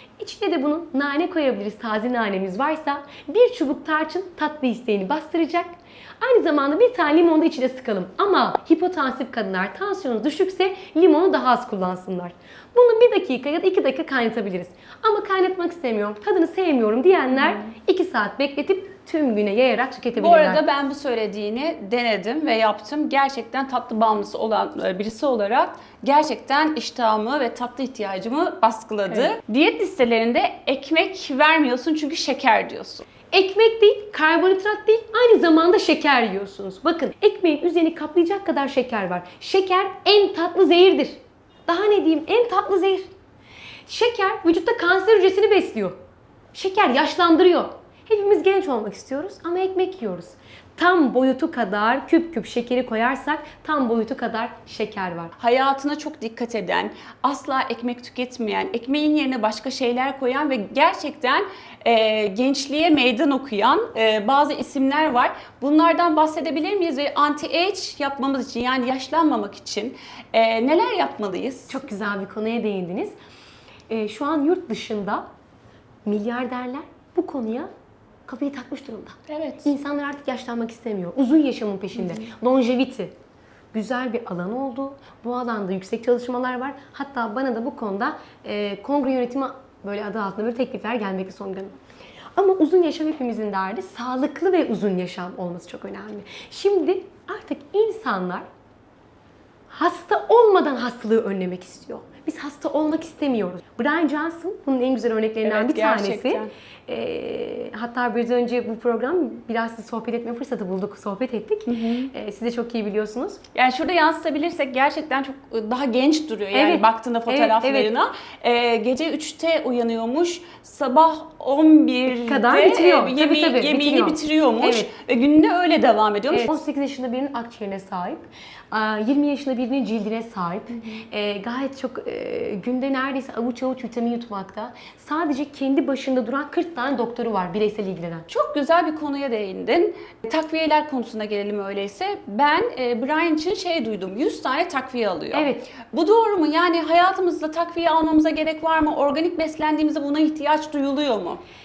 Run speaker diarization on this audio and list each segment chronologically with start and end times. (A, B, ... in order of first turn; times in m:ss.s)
0:00.2-0:20.6 A
0:17.4-0:17.7 B
0:20.2-0:33.1 B
0:33.3-0:43.1 A
0:43.9-0:46.0 A
0:46.5-0:55.3 A
0:55.4-1:11.8 B
1:11.7-1:13.1 A
1:13.9-1:15.3 A
1:16.1-1:17.7 A
1:18.3-1:23.1 A
1:19.3-1:19.7 B
1:22.0-1:22.2 B
1:23.7-1:31.8 A
1:32.4-1:38.5 A
1:39.7-1:53.4 A
1:45.4-1:46.5 B
1:51.7-1:52.1 B
1:53.6-2:06.6 B
1:56.5-1:57.9 A
2:02.3-2:04.9 A
2:06.3-2:18.3 A
2:18.3-2:31.4 B
2:25.3-2:25.7 A